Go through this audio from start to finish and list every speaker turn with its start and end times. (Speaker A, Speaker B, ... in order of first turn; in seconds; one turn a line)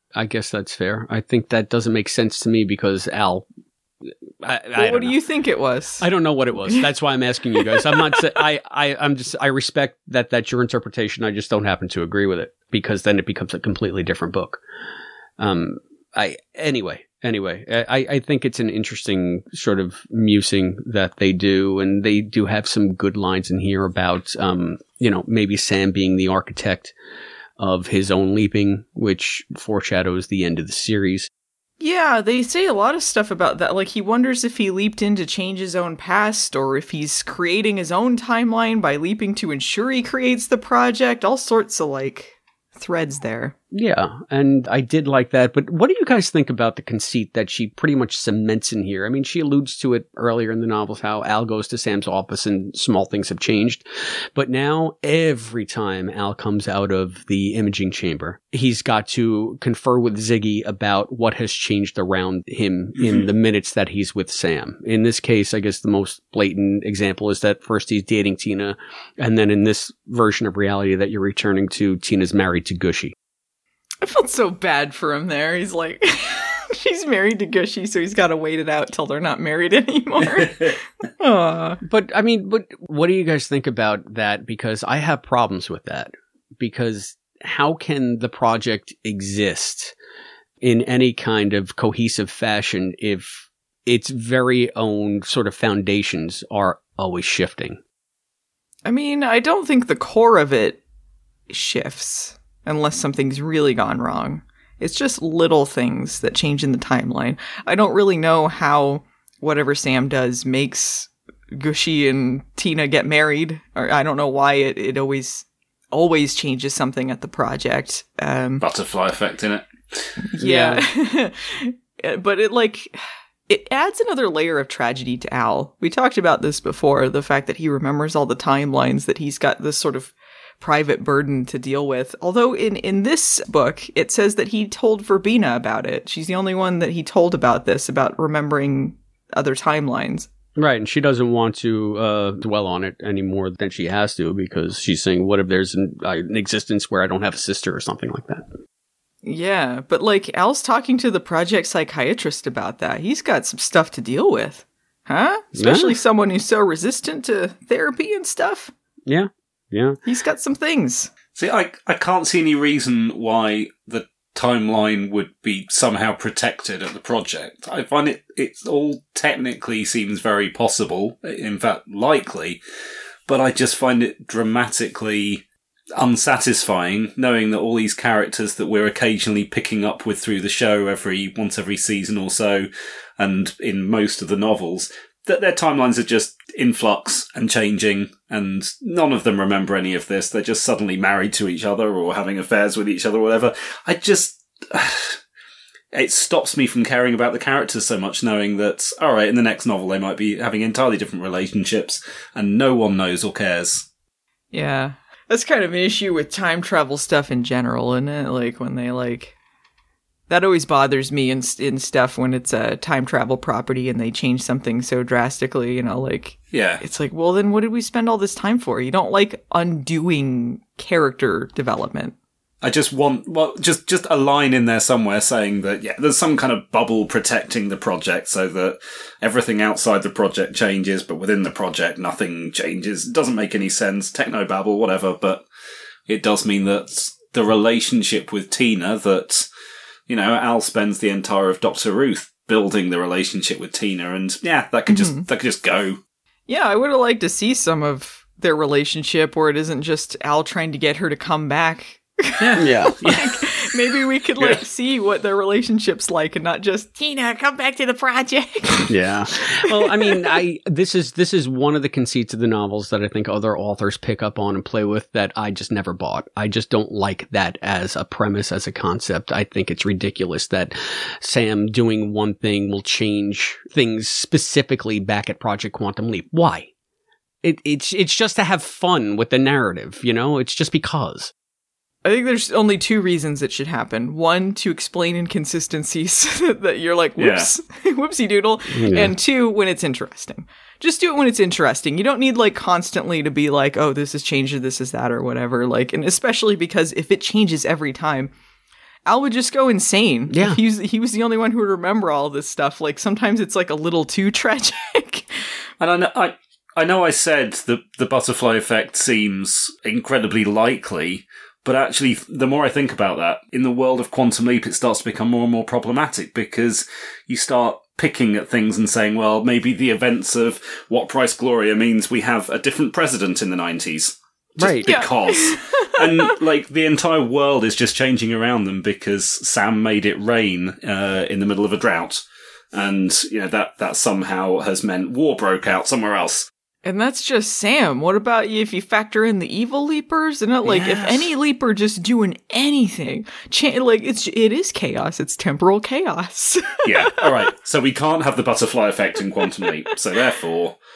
Speaker A: 0.1-3.5
Speaker A: 4.4-5.2
Speaker B: 4.7-6.0
Speaker A: 6.0-14.6
Speaker B: 7.6-8.2
Speaker A: 15.4-26.9
Speaker A: 27.6-31.3
Speaker B: 31.8-43.5
Speaker A: 43.7-73.1
Speaker C: 63.0-63.3
Speaker B: 74.0-81.8
Speaker C: 80.3-80.7
Speaker A: 81.8-89.9
Speaker A: 90.6-97.8
Speaker B: 98.8-100.8
Speaker B: 101.5-118.7
Speaker C: 118.6-120.2
Speaker B: 120.3-123.0
Speaker A: 120.4-120.8
Speaker B: 123.5-140.3
Speaker A: 140.6-148.4
Speaker B: 149.2-158.7
Speaker A: 155.5-155.9
Speaker A: 159.1-160.0
Speaker B: 160.1-161.1
Speaker C: 161.3-172.6
Speaker C: 173.3-175.4
Speaker C: 176.0-195.2
Speaker C: 195.9-203.8
Speaker B: 204.5-209.3
Speaker B: 210.3-222.2
Speaker C: 216.5-216.8
Speaker C: 222.6-235.4
Speaker C: 236.1-239.5
Speaker C: 240.1-246.0
Speaker B: 244.9-245.2
Speaker B: 246.5-258.9
Speaker C: 252.4-253.4
Speaker A: 252.6-252.9
Speaker A: 258.9-276.7
Speaker B: 259.7-260.3
Speaker A: 277.4-281.3
Speaker B: 282.0-298.3
Speaker C: 287.2-287.5
Speaker A: 288.7-289.1
Speaker B: 299.1-305.3
Speaker A: 300.3-300.6
Speaker C: 305.8-336.5
Speaker A: 324.6-324.9
Speaker B: 324.8-326.4
Speaker B: 336.8-347.5
Speaker C: 346.8-350.8